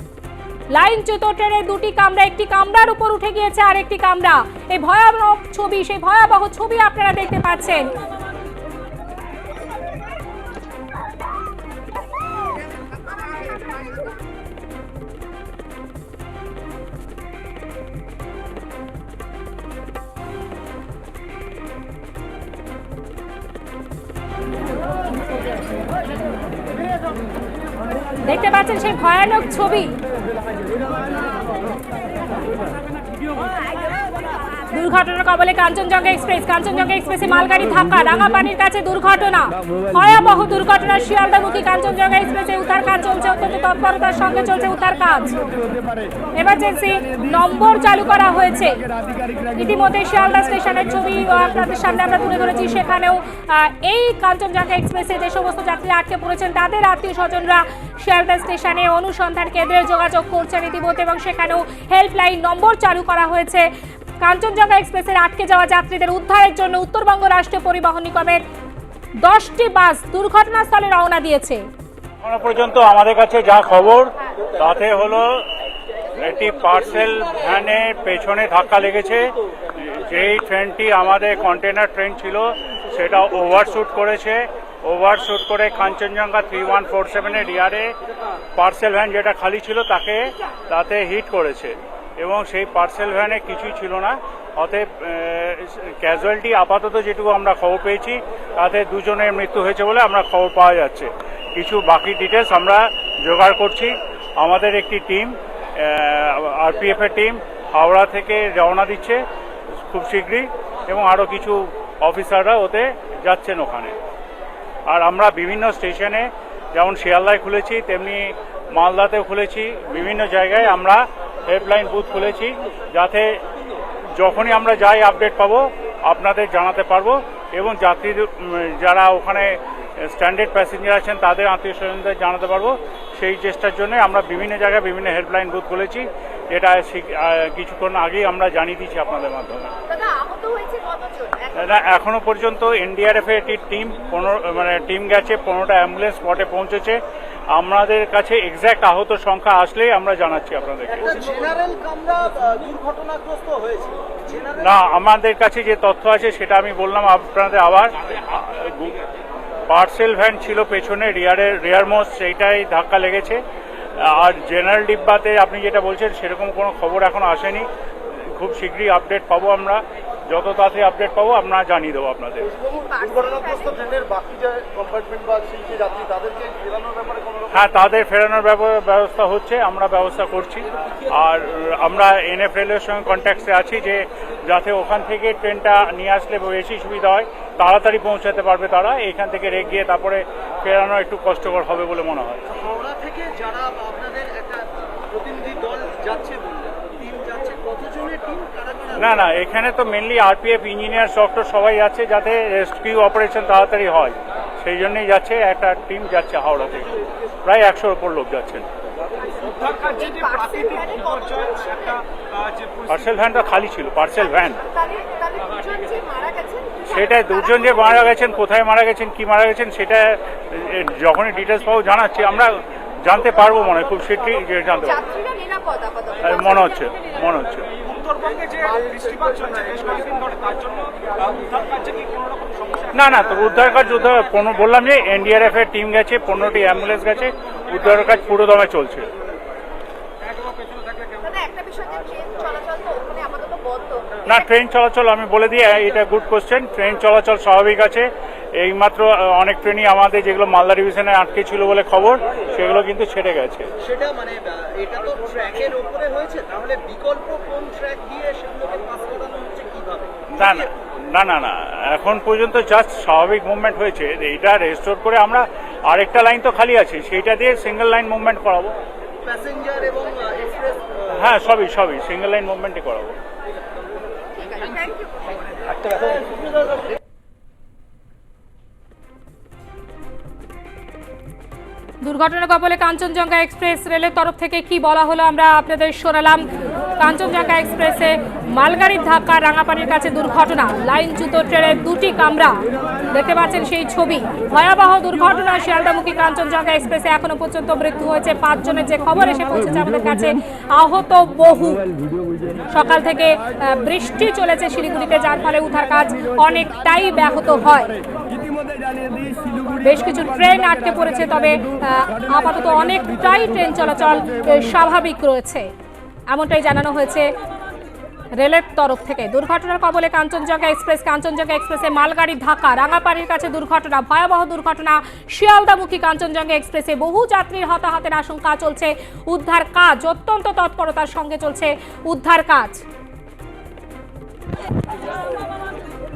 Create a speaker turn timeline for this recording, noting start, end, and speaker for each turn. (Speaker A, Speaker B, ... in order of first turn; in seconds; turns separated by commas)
Speaker A: 0.7-7.9, Speaker A: 28.2-29.9, Speaker A: 34.7-45.4, Speaker A: 46.4-48.9, Speaker A: 49.5-63.7, Speaker A: 64.2-68.4, Speaker A: 69.2-71.7, Speaker B: 72.2-75.4, Speaker B: 76.2-87.9, Speaker B: 88.6-109.2, Speaker B: 109.9-114.0, Speaker B: 114.9-123.4, Speaker B: 124.2-129.6, Speaker B: 130.1-139.7, Speaker C: 139.9-141.7, Speaker B: 141.6-147.0, Speaker B: 147.6-151.2, Speaker D: 151.0-154.8, Speaker B: 154.6-159.0, Speaker B: 159.7-163.4, Speaker B: 164.0-167.7, Speaker B: 168.4-172.5, Speaker C: 172.7-174.2, Speaker D: 173.9-177.3, Speaker B: 177.5-192.4, Speaker D: 192.5-199.3, Speaker B: 199.0-208.7, Speaker C: 209.7-212.0, Speaker B: 212.9-214.6, Speaker C: 214.7-216.9, Speaker B: 216.9-225.1, Speaker C: 225.1-226.6, Speaker B: 226.2-227.7, Speaker D: 227.9-232.8, Speaker B: 232.9-239.1, Speaker C: 241.2-244.1, Speaker B: 244.3-248.1, Speaker B: 248.6-253.7, Speaker D: 253.8-260.7, Speaker B: 260.4-268.8, Speaker D: 269.2-271.0, Speaker B: 271.2-273.2, Speaker C: 274.4-275.1, Speaker A: 282.0-286.5, Speaker A: 287.0-292.6, Speaker A: 293.1-301.8, Speaker A: 302.7-308.0, Speaker A: 309.8-315.7, Speaker A: 316.3-317.3, Speaker A: 318.4-332.8